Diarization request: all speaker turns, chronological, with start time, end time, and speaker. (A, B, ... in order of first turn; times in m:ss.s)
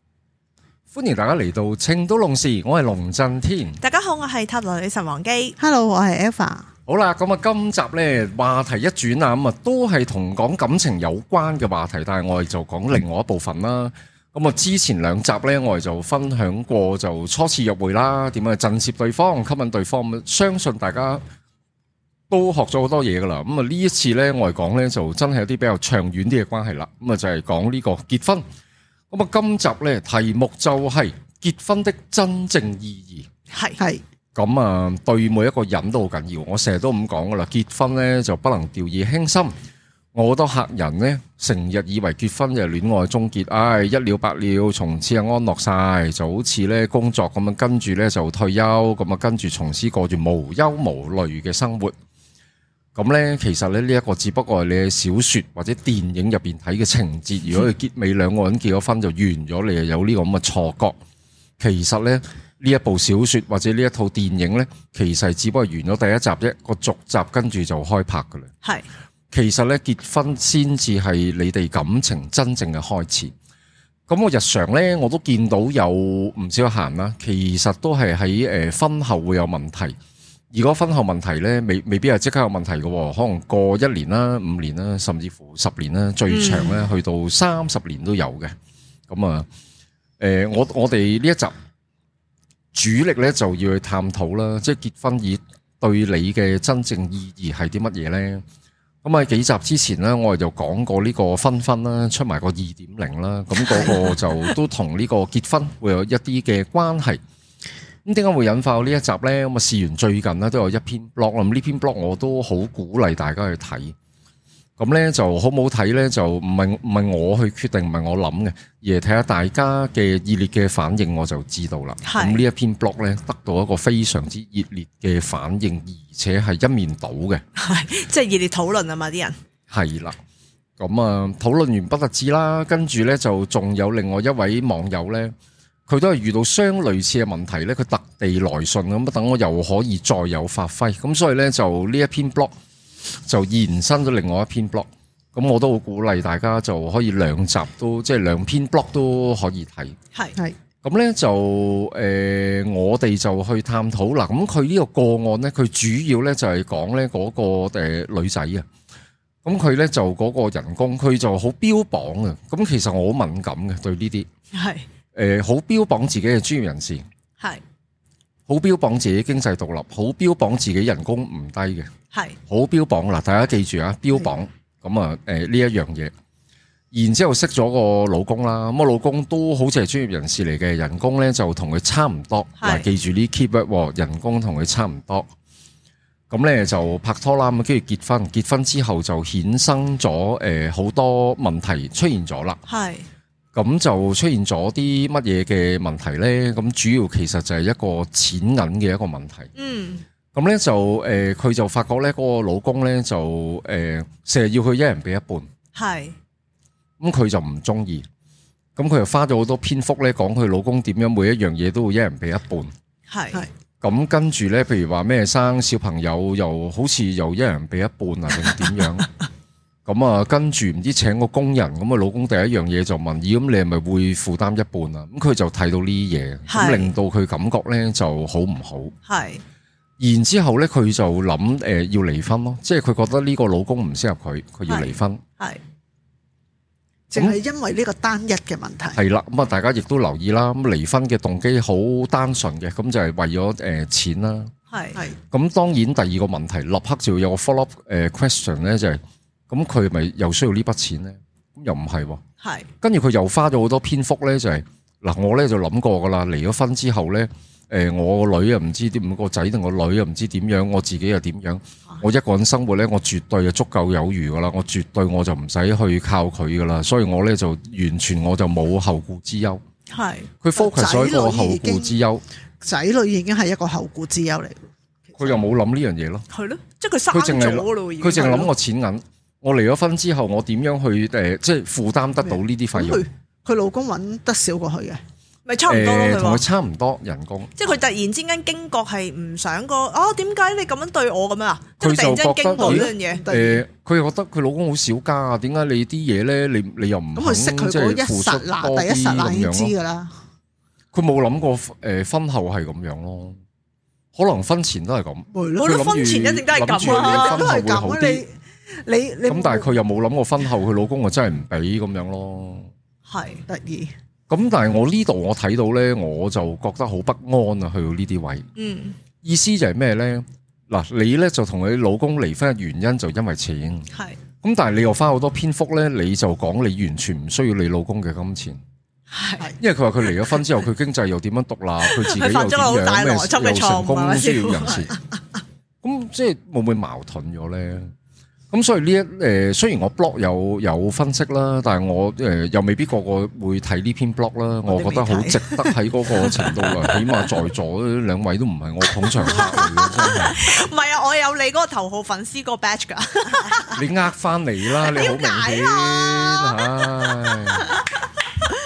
0:00.9-0:03.8 A
0:03.8-0:05.6 B
0:05.6-0:06.7 C
0:06.9-0:21.2 A
0:22.3-0:28.4 A
0:29.1-0:33.3 A
0:33.5-0:33.8 B
0:33.8-0:34.0 C
0:34.3-0:39.5 A
0:40.1-0:51.9 A
0:52.9-1:01.0 A
1:01.6-1:08.5 A
1:09.3-1:13.3 A
1:14.1-1:20.0 A
1:20.5-1:28.5 A
1:26.3-1:26.8 B
1:29.1-1:29.5 A
1:30.2-1:31.5 A
1:32.7-1:38.4 A
1:39.0-1:47.2 A
1:43.7-1:44.3 B
1:48.0-1:53.9 A
1:54.8-2:07.4 A
2:02.0-2:02.4 B
2:07.6-2:09.4 B
2:09.7-2:10.2 A
2:10.8-2:15.3 A
2:15.9-2:22.5 A
2:23.2-2:30.0 A
2:30.8-2:38.7 A
2:39.4-2:44.3 A
2:44.5-2:44.9 B
2:45.1-2:47.0 A
2:48.5-2:51.9 A
2:52.1-2:52.4 B
2:52.5-2:56.1 A
2:56.9-3:05.3 A
3:02.6-3:02.9 B
3:06.3-3:12.6 A
3:12.7-3:13.0 B
3:13.5-3:19.5 A
3:19.6-3:20.0 B
3:20.3-3:25.5 A
3:25.7-3:26.1 B
3:27.0-3:28.0 A
3:28.8-3:32.7 A
3:33.1-3:33.4 B
3:33.8-3:39.1 A
3:39.8-3:48.9 A
3:46.5-3:46.9 B
3:49.1-3:49.4 B
3:50.0-3:55.2 A
3:54.7-3:55.6 B
3:57.1-3:59.0 C
3:58.9-4:04.5 A
4:04.7-4:05.0 B
4:05.3-4:12.2 A
4:12.4-4:12.7 B
4:12.8-4:29.6 A
4:29.9-4:30.3 B
4:30.4-4:32.2 A
4:30.6-4:32.0 C
4:32.6-4:34.6 C
4:35.2-4:36.2 A
4:36.3-4:38.5 B
4:37.1-4:43.0 A
4:42.2-4:45.0 C
4:45.4-4:46.4 B
4:45.7-4:47.5 A
4:47.6-4:53.2 B
4:51.8-4:59.7 A
4:52.5-4:53.6 C
4:57.1-5:00.1 C
5:00.9-5:03.4 A
5:04.1-5:08.2 A
5:05.3-5:05.8 C
5:05.6-5:07.5 B
5:06.8-5:09.7 C
5:09.3-5:12.7 A
5:13.1-5:13.4 B
5:13.5-5:13.9 C
5:14.3-5:18.4 A
5:18.6-5:19.0 B
5:19.2-5:23.9 A
5:24.4-5:28.6 A
5:29.1-5:29.5 B
5:29.6-5:35.0 A
5:31.8-5:34.9 B
5:35.8-5:37.9 A
5:38.5-5:50.4 A
5:44.7-5:45.8 C
5:49.2-5:53.7 B
5:53.7-5:57.7 A
5:54.8-5:56.8 B